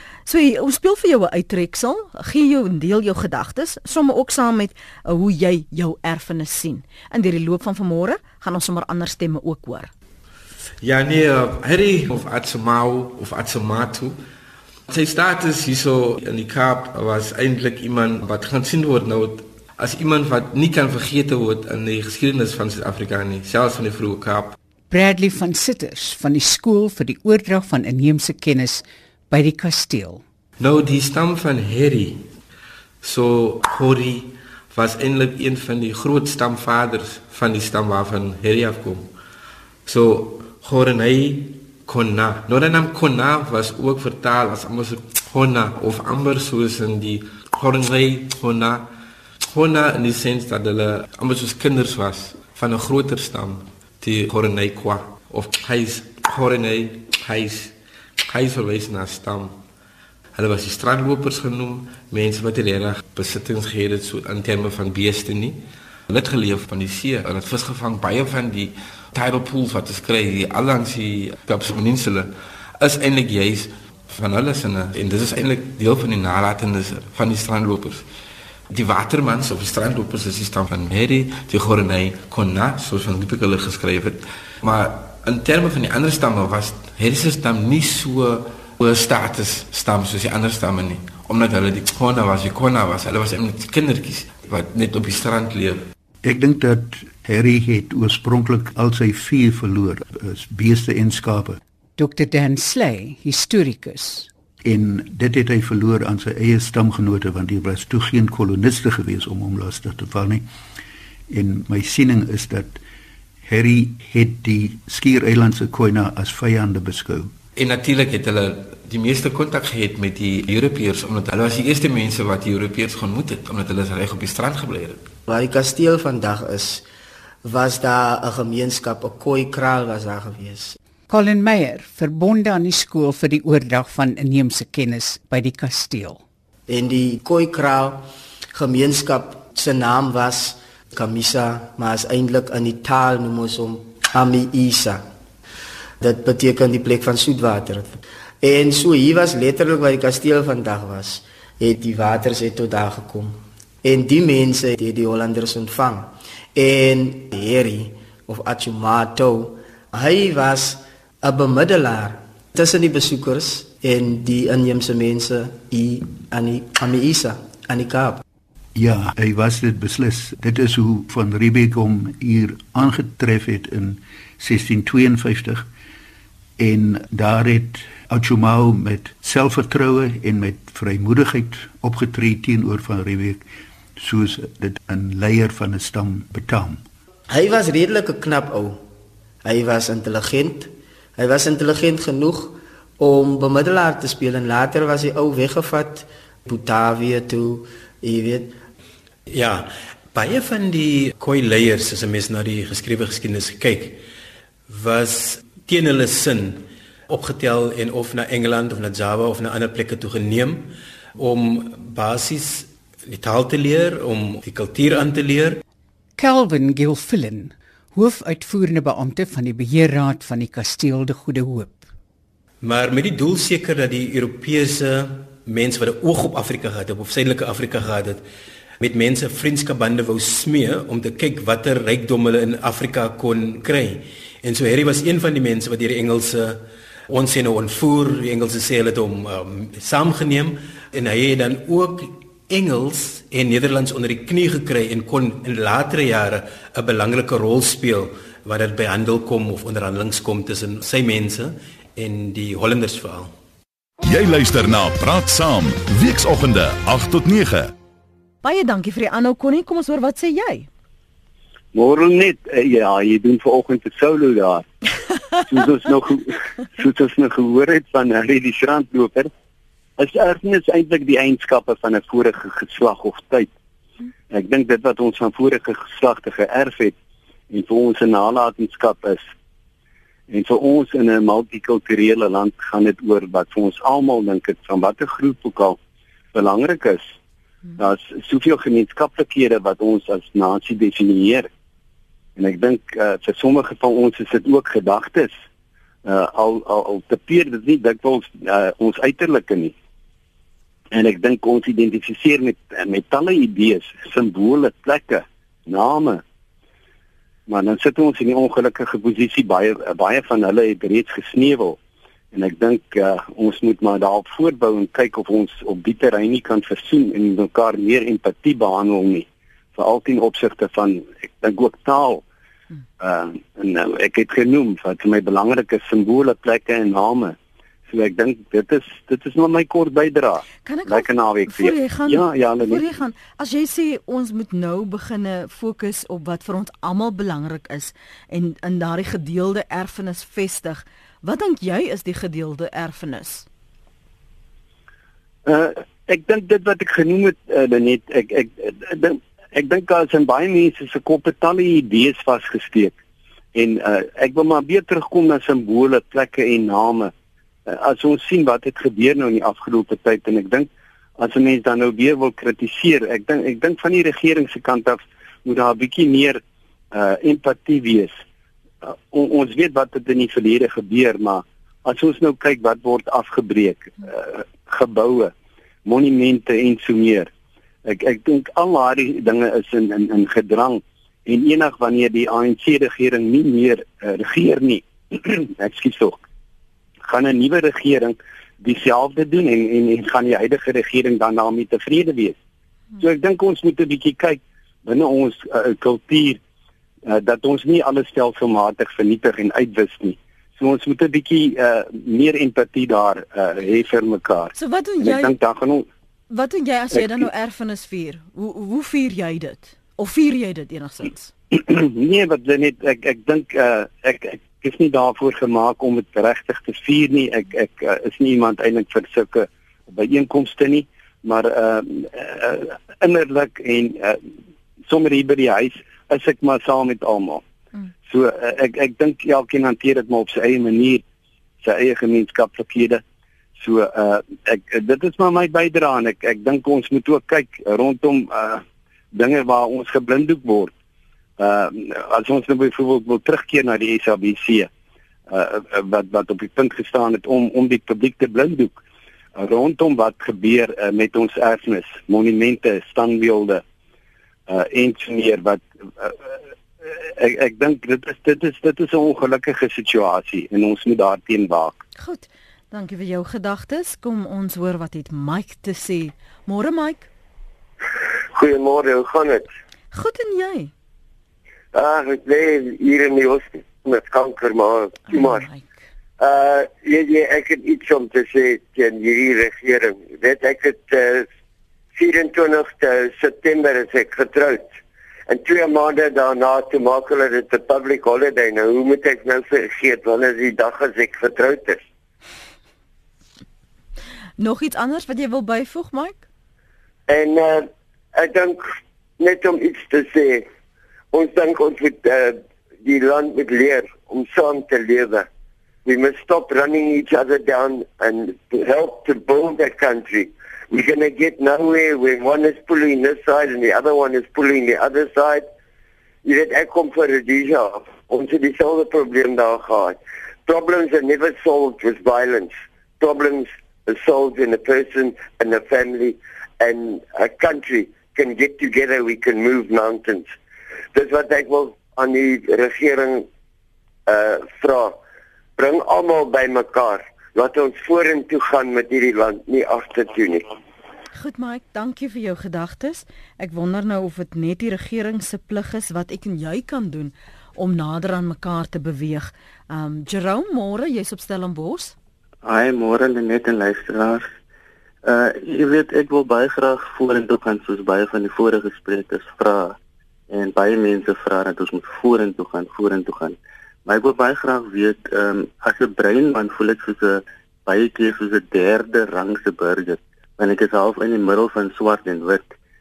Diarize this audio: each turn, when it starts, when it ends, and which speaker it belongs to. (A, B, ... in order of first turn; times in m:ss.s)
0:00.3-0:09.9 A
0:10.8-0:14.2 B
0:14.9-0:24.6 B
0:24.9-0:30.2 C
0:30.6-0:32.2 B
0:33.0-0:39.1 B
0:39.8-0:48.9 B
0:49.5-0:59.6 B
1:00.4-1:18.0 B
1:18.7-1:35.8 B
1:36.2-1:41.6 D
1:42.0-1:44.3 C
1:44.6-1:50.5 D
1:51.3-1:52.8 D
1:53.4-1:57.3 D
1:57.6-2:05.1 B
2:05.3-2:06.8 E
2:07.4-2:10.8 E
2:11.1-2:16.2 C
2:16.7-2:25.0 E
2:26.0-2:48.2 E
2:48.8-2:55.7 D
2:56.6-3:03.4 D
3:04.0-3:06.8 D
3:07.3-3:08.8 E
3:09.4-3:18.6 E
3:19.3-3:24.0 F
3:24.7-3:35.6 F
3:36.2-3:41.9 C
3:42.6-3:48.2 F
3:48.8-4:13.3 F
4:14.0-4:17.7 G
4:18.4-4:20.7 A
4:21.7-4:24.6 H
4:25.5-4:29.3 H
4:30.0-4:33.5 H
4:34.3-4:37.0 H
4:37.5-4:39.3 H
4:40.3-4:45.8 H
4:46.3-4:47.1 H
4:47.8-4:51.5 H
4:52.4-4:55.3 H
4:56.0-4:59.7 H
5:00.9-5:06.2 H
5:07.5-5:11.8 H
5:12.3-5:22.2 H
5:23.0-5:27.4 H
5:27.9-5:32.8 H
5:30.6-5:43.5 A
5:45.5-5:53.0 H
5:53.6-5:57.1 H
5:57.7-6:06.4 H
6:06.9-6:08.2 H
6:08.8-6:15.3 H
6:15.8-6:17.3 H
6:17.8-6:26.2 H
6:27.0-6:32.4 H
6:33.0-6:36.4 H
6:37.1-6:45.9 H
6:44.5-6:45.4 A
6:46.3-6:51.3 A
6:47.0-6:47.2 H
6:51.5-7:04.2 H
7:04.8-7:07.4 H
7:08.0-7:11.0 H
7:11.6-7:13.0 H
7:13.6-7:20.7 H
7:21.4-7:24.7 H
7:25.3-7:28.8 H
7:29.4-7:33.6 H
7:34.5-7:41.8 H
7:42.0-7:47.1 A
7:48.3-7:49.5 I
7:49.9-7:50.7 A
7:51.7-7:55.5 I
7:55.1-7:55.8 A
7:56.2-8:01.3 I
8:02.0-8:04.8 I
8:05.3-8:11.8 I
8:14.4-8:16.2 A
8:17.1-8:20.5 I
8:21.1-8:25.3 I
8:25.8-8:35.5 I
8:36.2-8:50.3 I
8:50.9-8:53.3 I
8:54.1-8:55.0 I
8:55.6-9:00.5 I
9:01.1-9:12.0 A
9:12.4-9:14.3 J
9:15.0-9:19.8 J
9:20.3-9:32.5 J